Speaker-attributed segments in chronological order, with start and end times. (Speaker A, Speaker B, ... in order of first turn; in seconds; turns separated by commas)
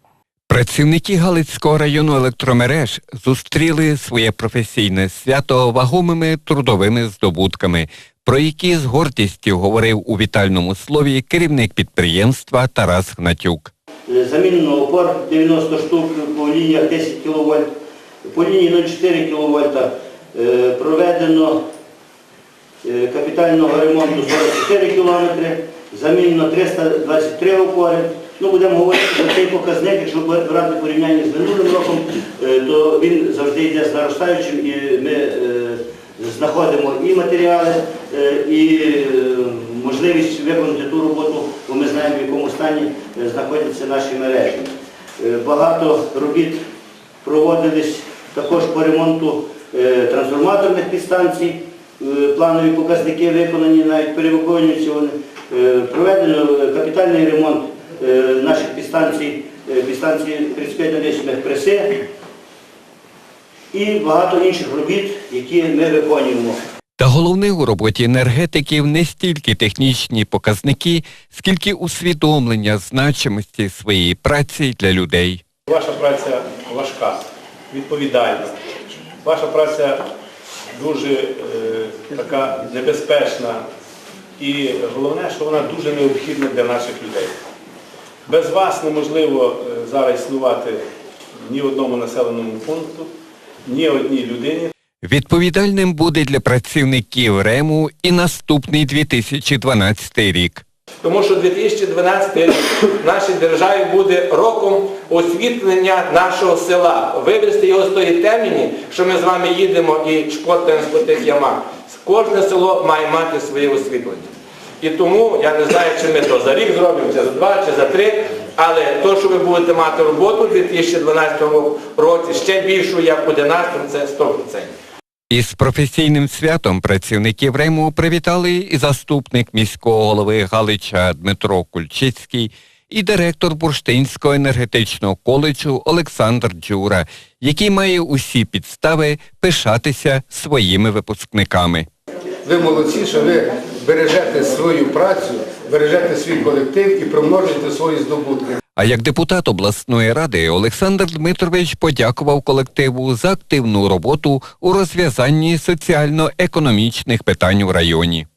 Speaker A: 0.5-13.7, Speaker B: 14.1-17.7, Speaker B: 18.2-21.6, Speaker B: 22.8-46.6, Speaker B: 47.2-62.0, Speaker B: 63.7-66.6, Speaker A: 67.0-75.4, Speaker C: 75.7-77.2, Speaker C: 77.7-78.5, Speaker C: 79.2-80.0, Speaker C: 80.8-83.6, Speaker C: 84.4-87.3, Speaker C: 88.3-90.8, Speaker C: 91.4-93.1, Speaker C: 93.7-94.7, Speaker A: 95.0-100.7, Speaker D: 101.0-114.3, Speaker D: 114.8-124.7, Speaker A: 125.3-141.9, Speaker E: 142.4-148.6, Speaker A: 148.8-158.3